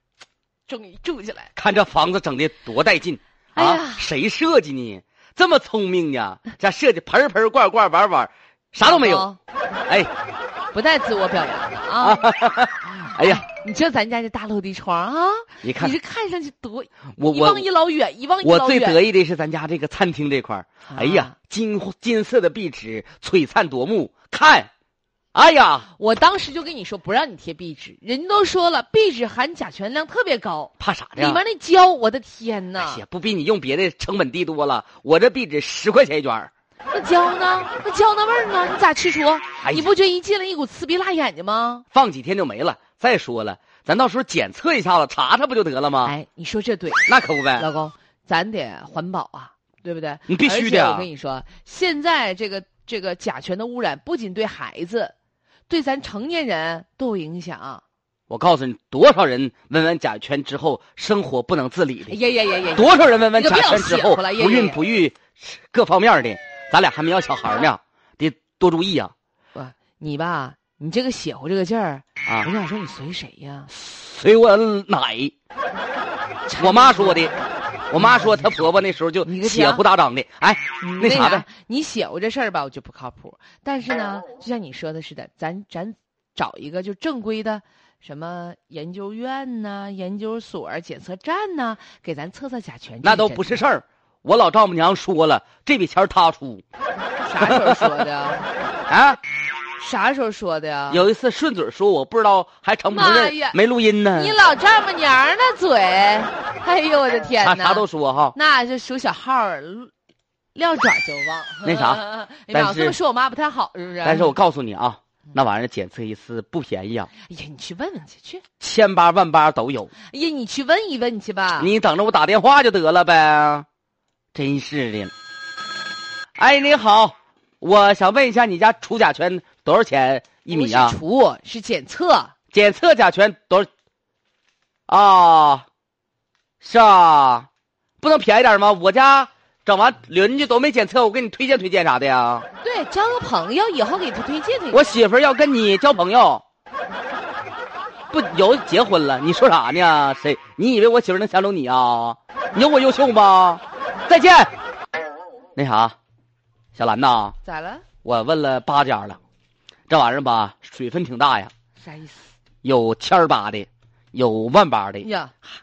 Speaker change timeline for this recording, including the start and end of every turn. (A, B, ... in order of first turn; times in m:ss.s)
0:00.7-0:01.5 A
0:01.6-0:09.3 B
0:03.6-0:04.1 A
0:08.8-0:09.4 A
0:10.7-0:12.3 A
0:12.0-0:13.4 B
0:12.9-0:19.0 A
0:15.6-0:16.0 B
0:17.2-0:17.7 B
0:18.4-0:24.7 B
0:20.9-0:21.3 A
0:25.3-0:25.9 B
0:26.0-0:33.0 A
0:30.8-0:31.4 B
0:32.8-0:36.5 B
0:36.9-0:41.8 A
0:39.6-0:39.9 B
0:41.9-0:46.1 B
0:46.0-0:55.1 A
0:47.1-0:47.7 B
0:50.3-0:51.1 B
0:55.7-0:57.8 A
0:58.3-1:02.2 B
1:02.1-1:04.8 A
1:02.8-1:09.1 B
1:09.6-1:13.7 A
1:12.2-1:12.5 B
1:13.7-1:15.3 B
1:16.5-1:17.4 A
1:16.6-1:17.3 B
1:17.9-1:21.4 B
1:18.0-1:18.6 A
1:19.2-1:19.8 A
1:20.8-1:33.6 A
1:33.0-1:36.6 B
1:37.3-1:38.5 A
1:37.4-1:37.9 B
1:38.9-1:39.2 B
1:39.8-1:41.0 A
1:40.9-1:44.4 B
1:42.9-1:43.6 A
1:44.1-1:49.9 A
1:47.4-1:48.4 B
1:50.6-1:54.3 A
1:51.6-1:53.0 B
1:54.0-1:57.1 B
1:57.2-1:58.4 A
1:58.6-1:59.9 B
2:00.1-2:01.7 A
2:01.6-2:03.7 B
2:04.3-2:05.1 B
2:06.4-2:11.0 B
2:10.5-2:12.3 A
2:12.5-2:13.7 B
2:14.9-2:15.7 B
2:16.6-2:17.5 B
2:18.0-2:22.5 B
2:22.6-2:24.9 A
2:24.7-2:26.4 B
2:28.1-2:34.5 B
2:35.6-2:35.9 B
2:36.8-2:37.4 B
2:37.4-2:37.8 A
2:38.0-2:39.2 B
2:39.9-2:41.5 B
2:41.8-2:42.3 A
2:42.6-2:45.1 B
2:45.0-2:45.3 A